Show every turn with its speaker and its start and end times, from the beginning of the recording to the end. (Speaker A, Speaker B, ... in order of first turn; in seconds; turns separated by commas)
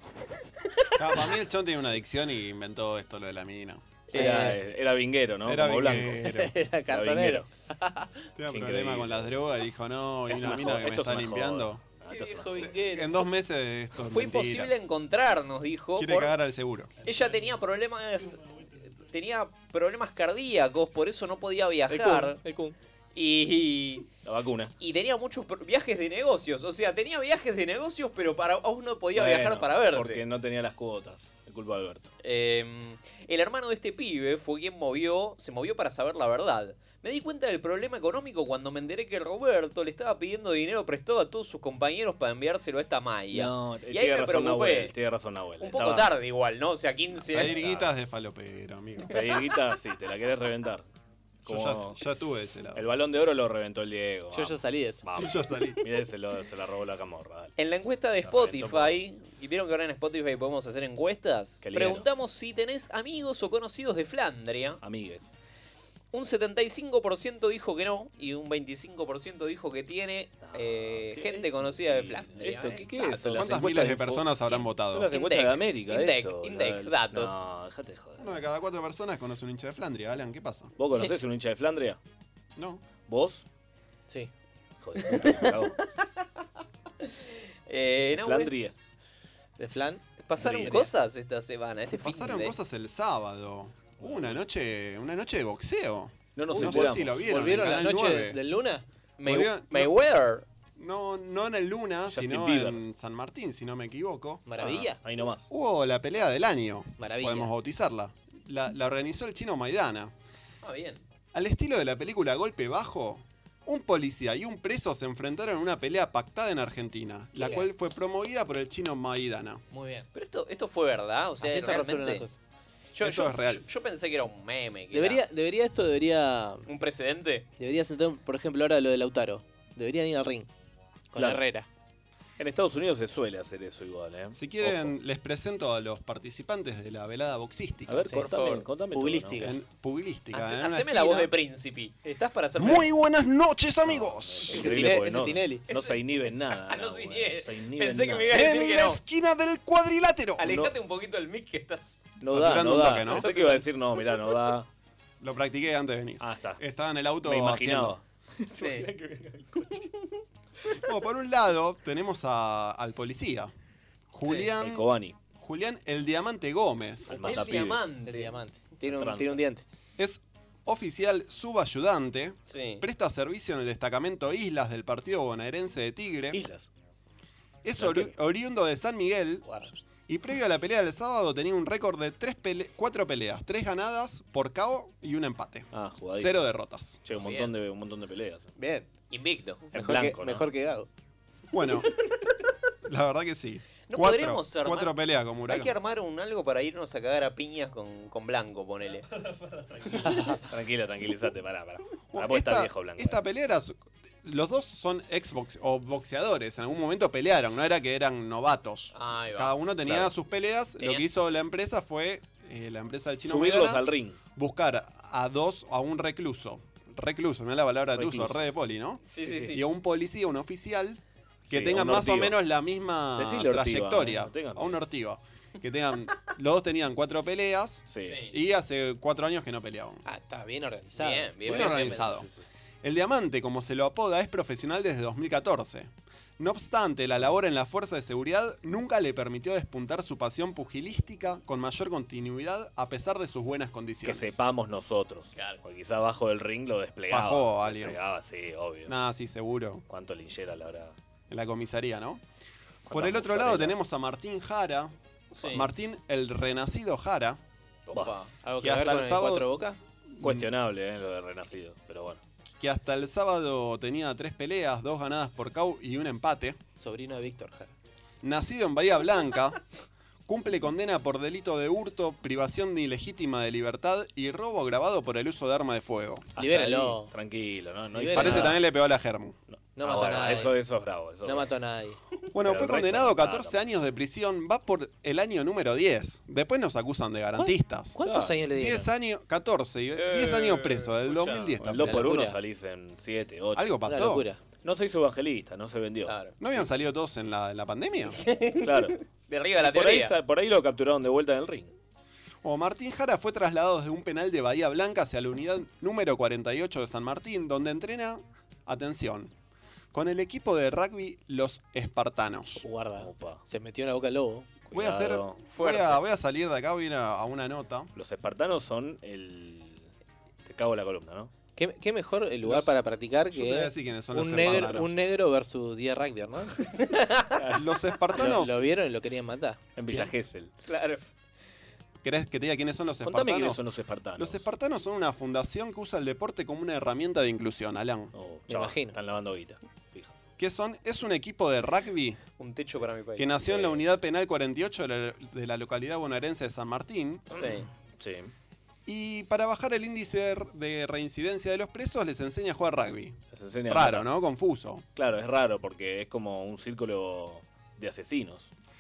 Speaker A: 1.0-4.1, Speaker B: 4.1-4.6, Speaker C: 4.1-6.2, Speaker A: 5.5-6.5, Speaker B: 6.2-8.1, Speaker C: 6.9-7.5, Speaker A: 8.4-11.8, Speaker C: 8.5-9.4, Speaker C: 10.3-12.7, Speaker D: 12.1-12.4, Speaker B: 12.1-13.2, Speaker A: 12.8-14.7, Speaker D: 14.0-16.3, Speaker A: 16.0-16.9, Speaker D: 17.0-22.4, Speaker B: 21.9-22.8, Speaker D: 23.1-24.1, Speaker C: 24.2-24.7, Speaker D: 24.8-30.2, Speaker C: 29.1-32.1, Speaker D: 32.2-44.9, Speaker C: 43.3-46.1, Speaker D: 45.6-47.6, Speaker C: 47.2-47.9, Speaker A: 47.3-49.1, Speaker C: 49.1-50.9, Speaker C: 51.5-52.0, Speaker A: 51.5-52.9, Speaker C: 52.8-57.5, Speaker B: 54.3-55.0, Speaker A: 55.2-55.8, Speaker D: 57.6-64.8, Speaker C: 58.2-59.0, Speaker C: 61.6-62.1, Speaker C: 64.8-65.3, Speaker D: 66.1-73.5, Speaker C: 70.4-78.4, Speaker A: 73.4-75.1, Speaker D: 75.1-77.4, Speaker A: 78.2-80.7, Speaker C: 80.8-82.0, Speaker A: 82.6-82.8, Speaker C: 83.0-83.4, Speaker C: 84.8-85.7, Speaker D: 87.7-88.5, Speaker C: 88.1-88.7, Speaker B: 89.6-90.9, Speaker D: 90.2-92.6, Speaker C: 90.4-90.8, Speaker A: 92.0-98.4, Speaker C: 94.0-94.4, Speaker C: 96.3-97.4, Speaker B: 96.5-98.8, Speaker D: 99.2-100.5, Speaker A: 99.2-99.9, Speaker A: 100.8-104.5, Speaker C: 102.1-102.8, Speaker B: 104.5-105.0, Speaker C: 104.6-105.5, Speaker A: 105.5-110.1, Speaker B: 107.0-107.5, Speaker D: 110.6-111.0, Speaker A: 111.3-119.6, Speaker B: 117.4-117.7, Speaker B: 119.7-120.1, Speaker D: 120.2-122.3, Speaker B: 121.4-122.3, Speaker D: 123.0-125.2, Speaker A: 123.0-123.6, Speaker B: 124.9-126.7, Speaker D: 126.7-127.5, Speaker B: 127.6-130.5, Speaker B: 131.1-131.7, Speaker C: 131.2-131.4, Speaker C: 132.4-134.9, Speaker A: 134.3-138.1, Speaker C: 137.9-139.5, Speaker B: 138.1-138.4, Speaker D: 138.3-138.6, Speaker B: 138.9-139.6, Speaker A: 139.4-141.3, Speaker D: 140.3-142.9, Speaker A: 142.6-144.5, Speaker C: 143.8-148.4, Speaker B: 144.5-145.7, Speaker D: 145.7-146.0, Speaker D: 146.7-149.0, Speaker A: 148.3-150.5, Speaker D: 150.4-152.1, Speaker C: 150.4-150.7, Speaker C: 152.2-154.7, Speaker A: 152.3-153.3, Speaker D: 152.8-153.7, Speaker A: 155.2-158.0, Speaker C: 156.2-156.6, Speaker C: 157.2-159.9, Speaker D: 158.6-158.9, Speaker A: 160.8-163.5, Speaker A: 164.1-164.8, Speaker D: 164.2-164.5, Speaker C: 164.6-165.2, Speaker A: 165.4-167.2, Speaker C: 167.1-168.0, Speaker D: 167.2-168.4, Speaker B: 168.0-169.6, Speaker C: 168.8-169.4, Speaker A: 170.0-176.4, Speaker D: 172.5-172.8, Speaker C: 176.3-176.7, Speaker A: 177.6-179.5, Speaker C: 177.8-178.1, Speaker B: 179.4-179.7, Speaker A: 180.1-187.0, Speaker C: 185.7-186.3, Speaker C: 187.1-188.5, Speaker D: 187.1-187.5, Speaker B: 188.6-188.9, Speaker D: 189.1-189.7, Speaker C: 189.7-190.5, Speaker B: 189.7-190.9, Speaker A: 191.5-191.9, Speaker A: 192.9-195.7, Speaker D: 193.9-194.9, Speaker D: 195.5-199.1, Speaker C: 199.6-203.2, Speaker A: 202.1-213.8, Speaker D: 208.9-209.6, Speaker D: 210.8-211.1, Speaker C: 213.2-214.2, Speaker A: 214.3-230.0, Speaker C: 218.0-218.5, Speaker D: 219.1-219.6, Speaker C: 221.5-222.3, Speaker C: 223.2-224.8, Speaker C: 227.9-228.2, Speaker D: 228.0-228.3, Speaker B: 230.1-232.2, Speaker D: 230.9-232.1, Speaker A: 231.5-232.3, Speaker C: 232.0-232.4, Speaker A: 232.8-244.4, Speaker C: 244.1-248.9, Speaker A: 247.1-248.0, Speaker A: 248.9-249.8, Speaker C: 249.9-250.9, Speaker A: 251.3-252.2, Speaker C: 252.9-253.8, Speaker A: 252.9-257.4, Speaker D: 255.3-255.7, Speaker C: 257.9-258.1, Speaker D: 257.9-258.3, Speaker B: 258.4-259.8, Speaker A: 258.6-259.5, Speaker A: 260.2-260.5, Speaker C: 260.2-262.2, Speaker A: 262.6-266.6, Speaker B: 266.8-267.7, Speaker A: 268.2-269.6, Speaker A: 270.3-276.3, Speaker B: 276.4-277.1, Speaker C: 276.4-278.6, Speaker B: 277.9-278.6, Speaker A: 278.1-279.4, Speaker C: 279.5-281.5, Speaker B: 279.8-280.6, Speaker B: 281.2-282.0, Speaker A: 282.3-288.0, Speaker C: 282.4-283.6, Speaker B: 287.4-288.9, Speaker C: 288.0-288.4, Speaker A: 288.6-292.1, Speaker D: 289.9-291.6, Speaker C: 291.6-293.8, Speaker B: 291.8-292.4, Speaker A: 293.6-294.2, Speaker B: 293.9-294.4, Speaker C: 294.6-296.2, Speaker D: 296.1-296.4, Speaker A: 296.4-298.2, Speaker D: 298.3-300.1, Speaker C: 298.6-299.0, Speaker C: 299.6-301.7, Speaker A: 302.4-309.3, Speaker A: 309.9-312.7, Speaker B: 312.6-314.6, Speaker C: 313.0-313.4, Speaker C: 314.6-315.4, Speaker A: 314.7-317.9, Speaker D: 315.5-316.0, Speaker C: 318.0-319.9, Speaker C: 320.4-321.3, Speaker B: 321.6-326.6, Speaker A: 323.3-324.9, Speaker C: 327.4-327.6, Speaker A: 327.5-328.6, Speaker B: 328.1-330.1, Speaker C: 329.8-330.5, Speaker D: 330.7-331.0, Speaker A: 332.0-333.6, Speaker C: 333.0-334.4, Speaker A: 334.2-338.1, Speaker C: 338.1-340.1, Speaker B: 338.5-339.0, Speaker A: 340.4-342.2, Speaker D: 342.4-343.3, Speaker A: 343.2-347.2, Speaker C: 343.4-343.8, Speaker D: 347.3-347.7, Speaker C: 348.0-348.3, Speaker A: 348.9-354.9, Speaker C: 353.3-354.1, Speaker C: 355.0-358.5